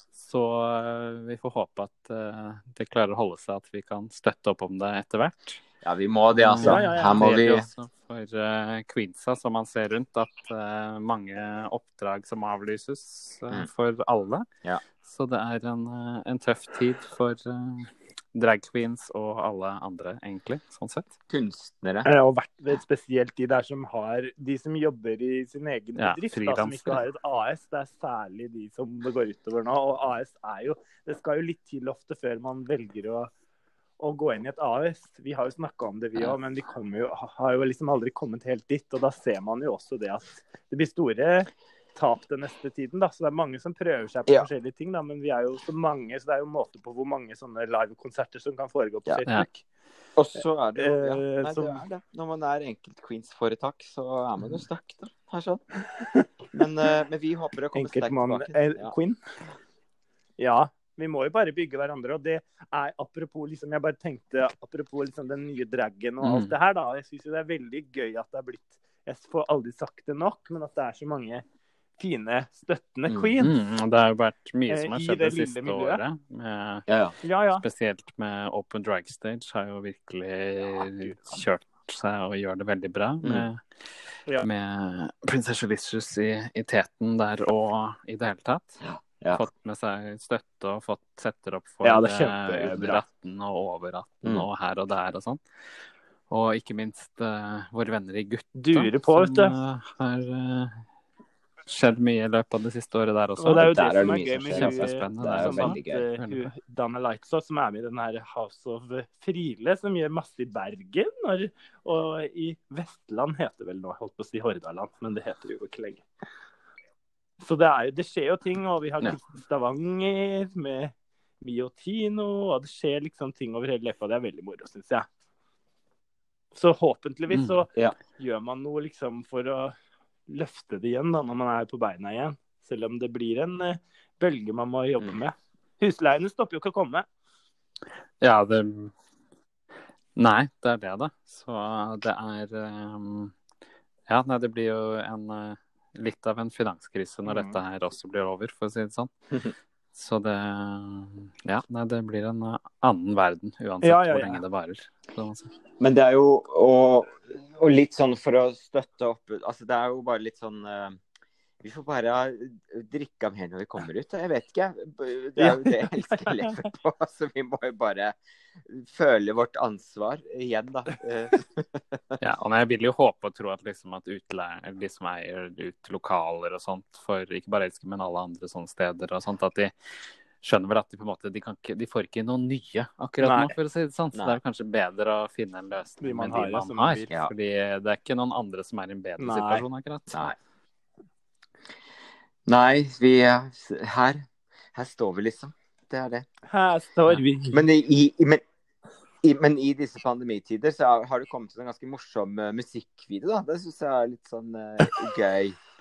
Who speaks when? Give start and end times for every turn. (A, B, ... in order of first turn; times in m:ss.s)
0:00.1-0:05.6 A
0:05.8-0:07.6 B
0:06.3-0:14.5 A
0:06.6-0:07.3 C
0:15.0-0:21.1 A
0:21.3-0:22.1 B
0:22.0-0:33.3 C
0:26.0-0:27.0 A
0:34.0-0:49.6 C
0:50.2-0:55.6 B
0:50.8-0:51.8 C
0:56.0-0:56.2 C
0:56.5-0:58.9 B
0:57.7-0:59.2 C
1:00.4-1:11.4 C
1:06.2-1:06.5 A
1:12.0-1:13.5 C
1:13.4-1:16.9 A
1:14.7-1:16.0 C
1:16.9-1:17.2 B
1:17.2-1:17.6 C
1:17.6-1:23.6 A
1:20.8-1:21.4 C
1:23.2-1:23.5 B
1:24.4-1:35.4 A
1:28.8-1:29.4 B
1:31.8-1:33.0 C
1:36.3-1:40.8 A
1:38.6-1:39.5 C
1:41.7-1:43.8 A
1:43.4-1:56.0 C
1:43.5-1:46.0 B
1:44.5-1:46.5 A
1:57.4-2:05.1 C
2:06.5-2:09.7 C
2:07.3-2:07.6 A
2:10.3-2:17.0 C
2:18.2-2:18.9 A
2:20.2-2:23.3 A
2:24.1-2:29.1 A
2:27.2-2:27.6 C
2:29.9-2:35.5 A
2:33.8-2:34.4 C
2:35.8-2:41.0 B
2:41.6-2:52.2 B
2:45.4-2:46.6 C
2:52.2-2:59.7 A
3:00.4-3:10.4 A
3:03.2-3:03.5 C
3:04.1-3:04.4 B
3:06.0-3:07.1 C
3:09.2-3:09.6 C
3:12.5-3:16.2 B
3:16.5-3:17.6 C
3:17.5-3:18.4 B
3:19.2-3:25.6 B